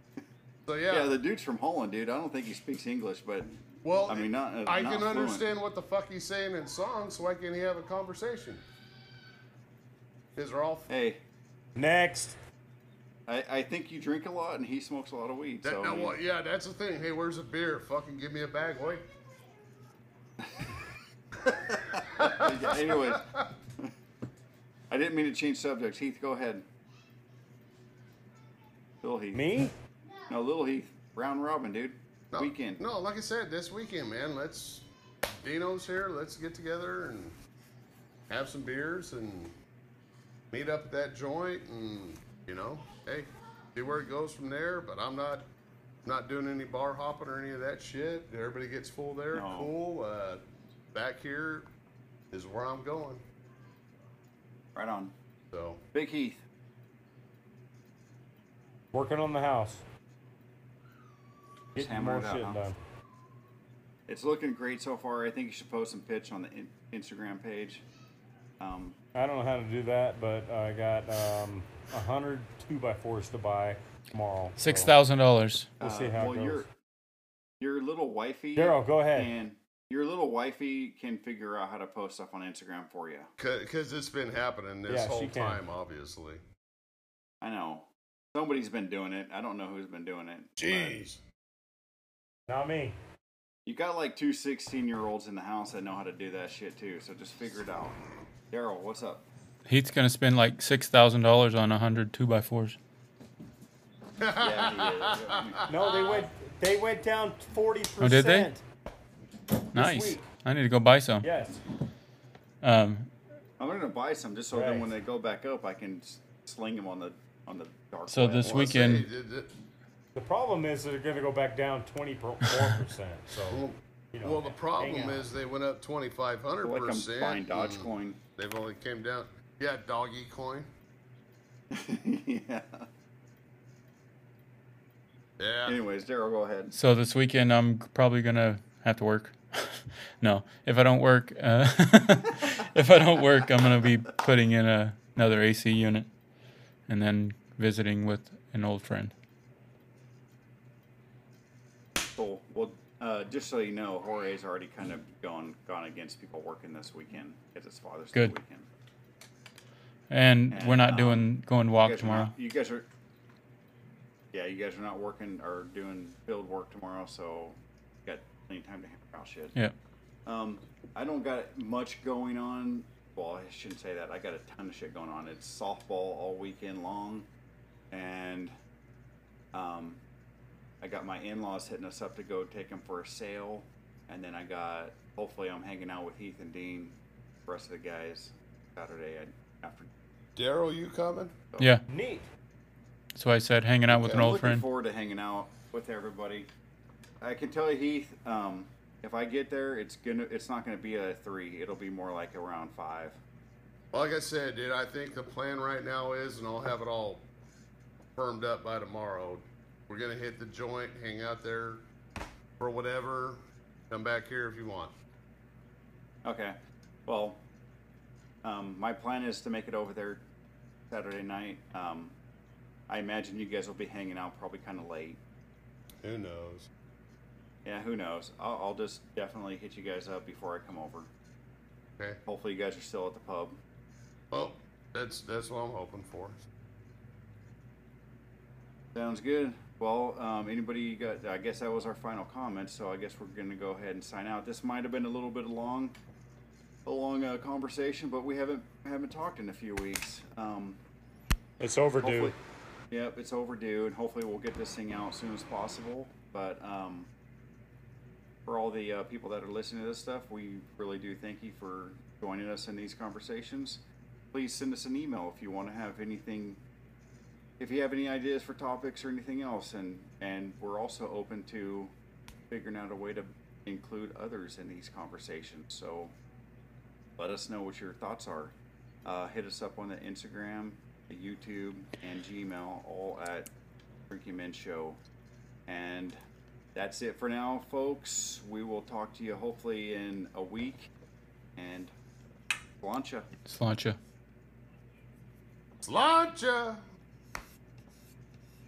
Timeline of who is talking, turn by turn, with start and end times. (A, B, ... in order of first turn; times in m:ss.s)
0:00.6-0:01.1 A
0:00.9-0:05.4 B
0:03.8-0:08.6 A
0:10.4-0:10.9 A
0:10.9-0:11.2 B
0:11.8-0:12.4 C
0:13.3-0:16.2 B
0:15.6-0:19.0 A
0:20.4-0:20.7 B
0:21.4-0:23.2 A
0:21.8-0:23.9 B
0:24.9-0:26.6 B
0:29.0-0:29.4 B
0:29.3-0:29.7 C
0:30.3-0:32.8 B
0:32.3-0:34.8 A
0:35.4-0:37.4 A
0:38.3-0:39.6 A
0:40.5-0:45.4 A
0:46.0-0:50.4 A
0:49.3-0:49.7 B
0:50.9-0:51.7 A
0:52.3-0:53.2 A
0:54.7-0:55.1 B
0:55.5-0:55.8 A
0:55.9-0:56.4 B
0:58.9-0:59.8 C
1:01.7-1:02.8 C
1:01.8-1:02.6 B
1:04.1-1:07.8 B
1:08.6-1:09.0 B
1:09.1-1:14.9 C
1:14.6-1:15.7 D
1:15.8-1:16.7 B
1:15.8-1:16.6 C
1:17.6-1:23.3 B
1:18.6-1:19.3 C
1:23.4-1:26.4 A
1:24.9-1:25.6 C
1:27.4-1:31.0 B
1:30.6-1:31.2 A
1:32.5-1:33.0 C
1:33.6-1:38.0 B
1:38.5-1:39.2 B
1:39.6-1:42.8 D
1:44.2-1:45.9 A
1:44.4-1:46.1 B
1:45.7-1:48.6 C
1:48.0-1:48.5 D
1:49.7-1:51.3 D
1:49.7-1:50.2 C
1:51.2-1:51.6 C
1:52.6-1:53.1 D
1:53.6-1:58.7 B
1:54.5-1:54.9 C
1:58.1-1:59.1 D
1:58.4-1:59.5 A
2:00.1-2:05.3 C
2:03.5-2:10.7 A
2:06.6-2:08.2 B
2:11.7-2:12.9 B
2:15.4-2:15.8 A
2:15.6-2:16.7 B
2:16.7-2:26.1 D
2:26.9-2:29.1 D
2:32.1-2:38.7 B
2:40.1-2:42.3 D
2:40.5-2:41.3 B
2:41.8-2:42.9 B
2:44.3-2:49.5 B
2:50.2-2:57.3 B
2:57.9-2:58.5 B
2:59.5-3:00.0 B
3:00.8-3:09.9 B
3:10.4-3:11.4 A
3:11.6-3:11.8 D
3:11.9-3:12.3 C
3:13.1-3:14.6 D
3:13.9-3:16.5 B
3:14.0-3:14.3 A
3:17.2-3:23.2 B
3:23.9-3:27.2 A
3:28.2-3:31.8 A
3:32.6-3:34.9 A
3:36.2-3:37.4 B
3:38.4-3:40.2 B
3:40.9-3:42.1 B
3:42.9-3:45.2 B
3:46.0-3:46.7 A
3:47.6-3:51.1 B
3:52.2-3:53.6 B
3:54.3-3:56.4 A
3:58.9-4:05.9 B
4:06.8-4:10.8 B
4:11.6-4:12.3 C
4:12.0-4:12.4 B
4:12.9-4:17.1 B
4:18.4-4:23.8 B
4:24.3-4:26.6 B
4:27.6-4:31.9 B
4:32.5-4:36.1 B
4:37.2-4:38.5 B
4:39.0-4:43.5 B
4:44.1-4:45.0 B
4:45.7-4:46.2 B
4:46.7-4:50.9 B
4:51.6-4:51.9 B
4:52.8-4:53.3 B
4:53.4-4:54.0 D
4:55.8-4:56.8 A